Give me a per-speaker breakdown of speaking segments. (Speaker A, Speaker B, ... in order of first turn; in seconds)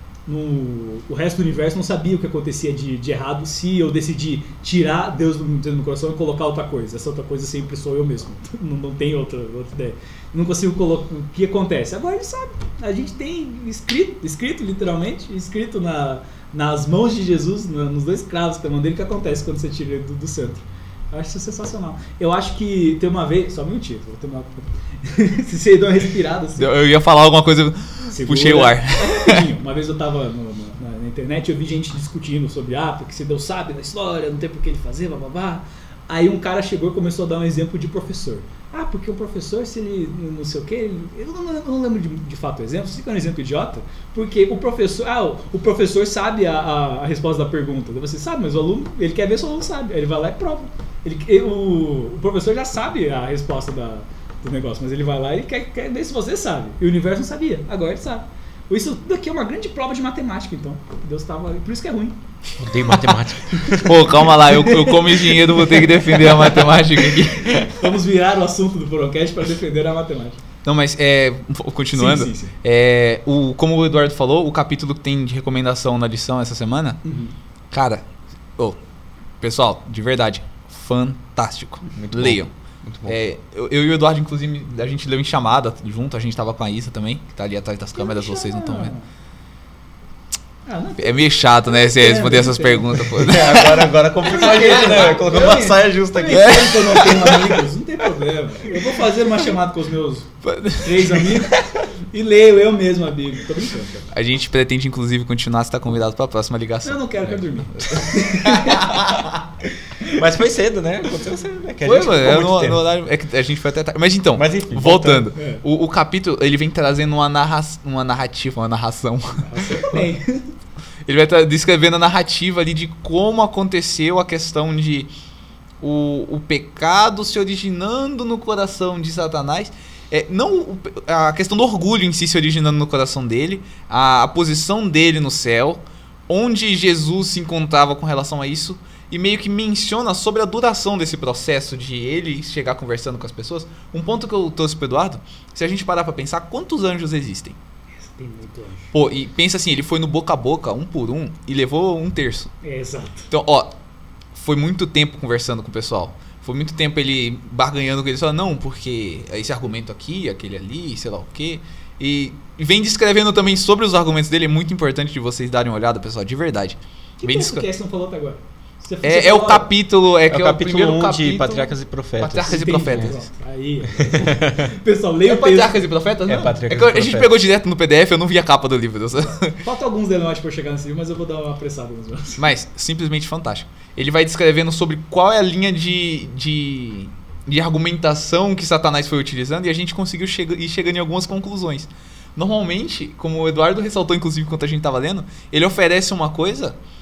Speaker A: 0.3-26.7, 28.1-62.2, 63.5-70.4, 72.0-72.5, 77.0-77.3, 88.0-89.1, 90.7-93.2, 94.2-104.1, 106.8-109.1, 115.3-115.6, 119.4-120.5, 148.0-148.9, 152.6-153.3, 167.2-169.7, 172.4-175.8, 179.6-182.4
Speaker B: 26.6-29.4, 63.8-67.9, 70.6-77.0, 77.7-78.0, 79.4-82.5, 83.1-88.9, 91.0-95.1, 96.3-97.6, 100.4-101.4, 104.1-109.4, 111.8-120.1, 121.0-125.1, 125.8-147.6, 148.9-152.5, 153.3-153.8, 154.3-167.6, 169.0-173.2, 175.2-179.6, 182.4-196.8
Speaker C: 62.6-64.1, 82.0-83.2, 93.2-97.0, 110.2-112.8, 114.3-115.2, 170.3-173.1, 174.0-174.7, 176.2-177.3